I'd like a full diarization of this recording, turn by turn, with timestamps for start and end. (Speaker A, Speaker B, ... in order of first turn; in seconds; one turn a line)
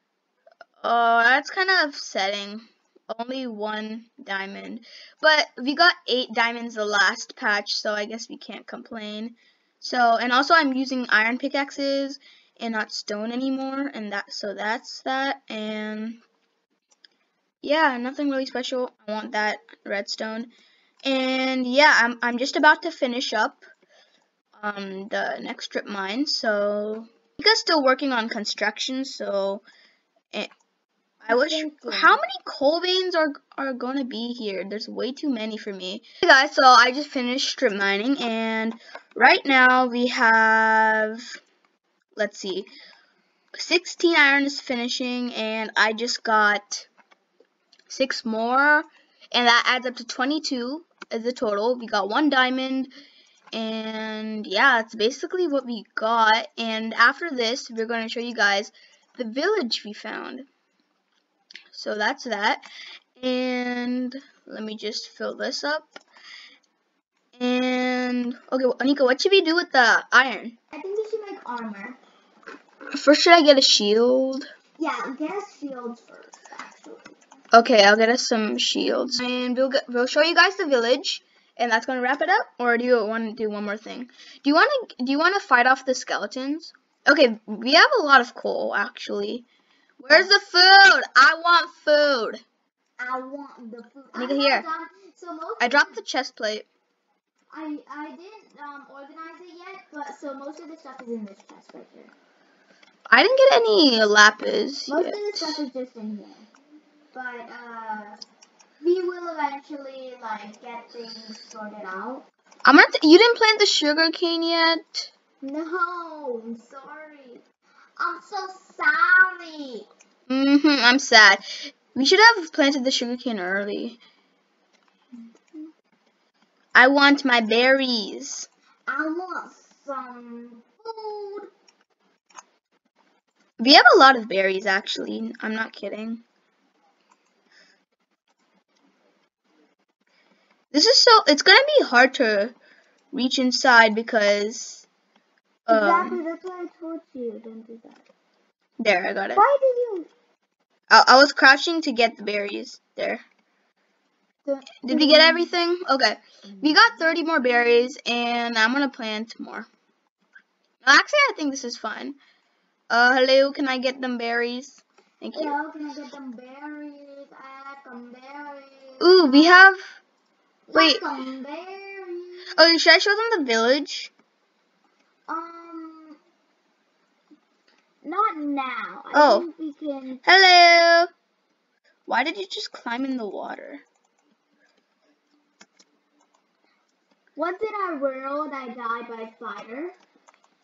Speaker A: 0.8-16.2
Speaker A: 17.6-20.5
Speaker A: 21.0-23.6
Speaker A: 24.6-29.6
Speaker B: 31.2-32.2
Speaker A: 31.2-41.4
Speaker A: 42.1-42.7
Speaker A: 43.5-46.9
Speaker A: 47.9-52.9
Speaker A: 53.5-60.5
Speaker A: 61.7-62.6
Speaker A: 63.2-65.9
Speaker A: 67.3-70.5
Speaker B: 70.7-72.0
Speaker A: 72.9-74.5
Speaker B: 74.8-77.2
Speaker A: 77.5-89.5
Speaker A: 90.0-92.4
Speaker B: 93.0-96.0
Speaker A: 94.1-94.7
Speaker A: 95.6-96.7
Speaker B: 97.5-102.1
Speaker A: 103.1-105.6
Speaker B: 104.9-106.5
Speaker B: 107.1-108.2
Speaker B: 108.8-112.2
Speaker A: 112.6-115.1
Speaker B: 115.4-117.4
Speaker B: 118.0-119.9
Speaker A: 120.3-124.0
Speaker A: 126.7-128.5
Speaker B: 128.9-131.5
Speaker A: 133.6-136.2
Speaker A: 140.7-142.6
Speaker A: 143.1-144.9
Speaker A: 145.7-146.2
Speaker B: 145.7-148.1
Speaker A: 148.8-149.4
Speaker B: 149.3-150.1
Speaker A: 150.9-153.2
Speaker B: 154.4-155.6
Speaker A: 154.8-159.7
Speaker B: 156.6-156.9
Speaker A: 160.8-162.2
Speaker A: 162.9-165.6
Speaker B: 165.3-169.7
Speaker A: 169.0-169.8
Speaker B: 170.7-172.4
Speaker A: 170.7-171.1
Speaker A: 172.6-174.1
Speaker B: 175.3-176.2
Speaker B: 178.0-180.2
Speaker A: 179.1-179.4
Speaker A: 180.2-181.1
Speaker A: 182.1-183.8
Speaker B: 187.3-189.9